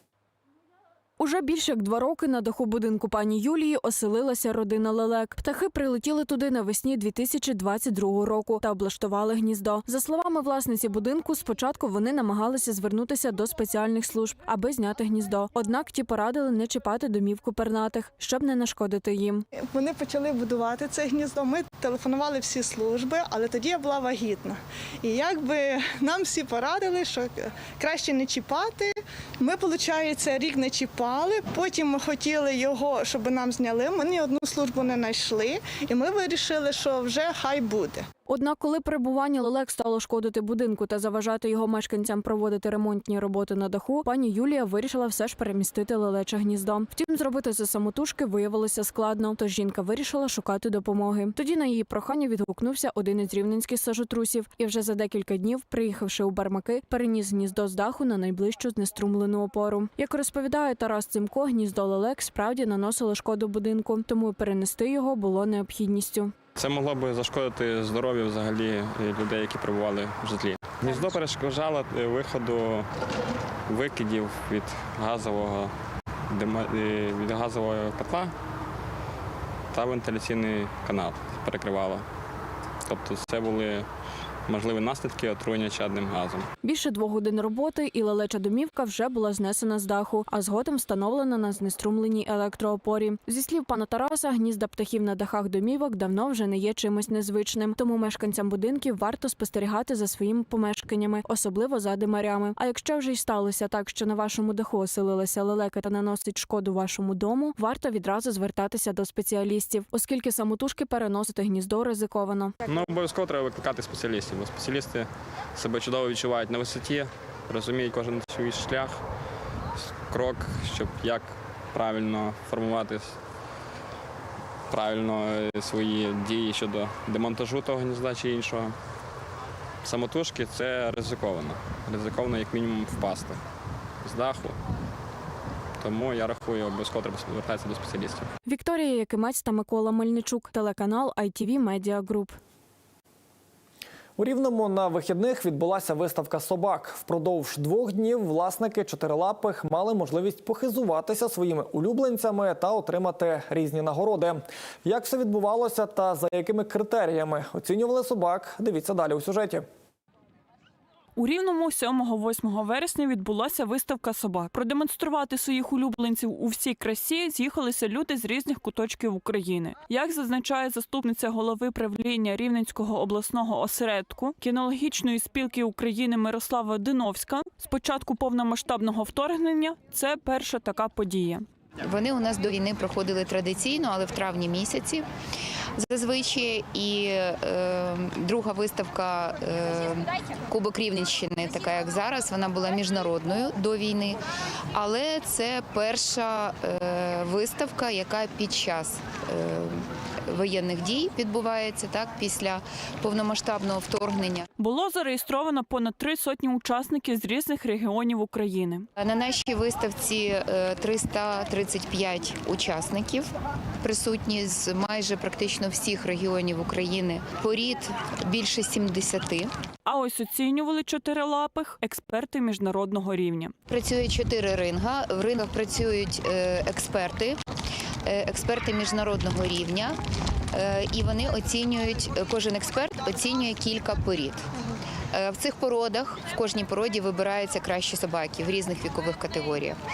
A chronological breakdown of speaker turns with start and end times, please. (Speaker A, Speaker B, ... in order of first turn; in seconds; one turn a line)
Speaker A: 1.2-19.4
Speaker B: 19.7-38.1
Speaker A: 38.3-66.3
Speaker C: 66.6-72.9
Speaker C: 73.7-75.7
Speaker C: 76.3-78.3
Speaker C: 79.7-82.0
Speaker C: 82.9-83.9
Speaker C: 84.5-86.5
Speaker A: 86.6-112.5
Speaker C: 112.7-119.0
Speaker C: 119.8-123.2
Speaker C: 124.7-128.8
Speaker C: 129.8-133.4
Speaker C: 134.0-134.6
Speaker C: 135.8-138.3
Speaker A: 138.4-142.4
Speaker D: 144.2-159.7
Speaker E: 161.2-181.5
Speaker F: 181.8-185.0
Speaker F: 185.8-194.2
Speaker F: 194.7-204.5
Speaker E: 204.6-208.9
Speaker F: 209.0-213.3
Speaker F: 213.8-219.5
Speaker E: 219.8-223.5
Speaker F: 223.7-227.4
Speaker F: 228.1-230.0
Speaker F: 230.5-234.4
Speaker F: 235.1-239.8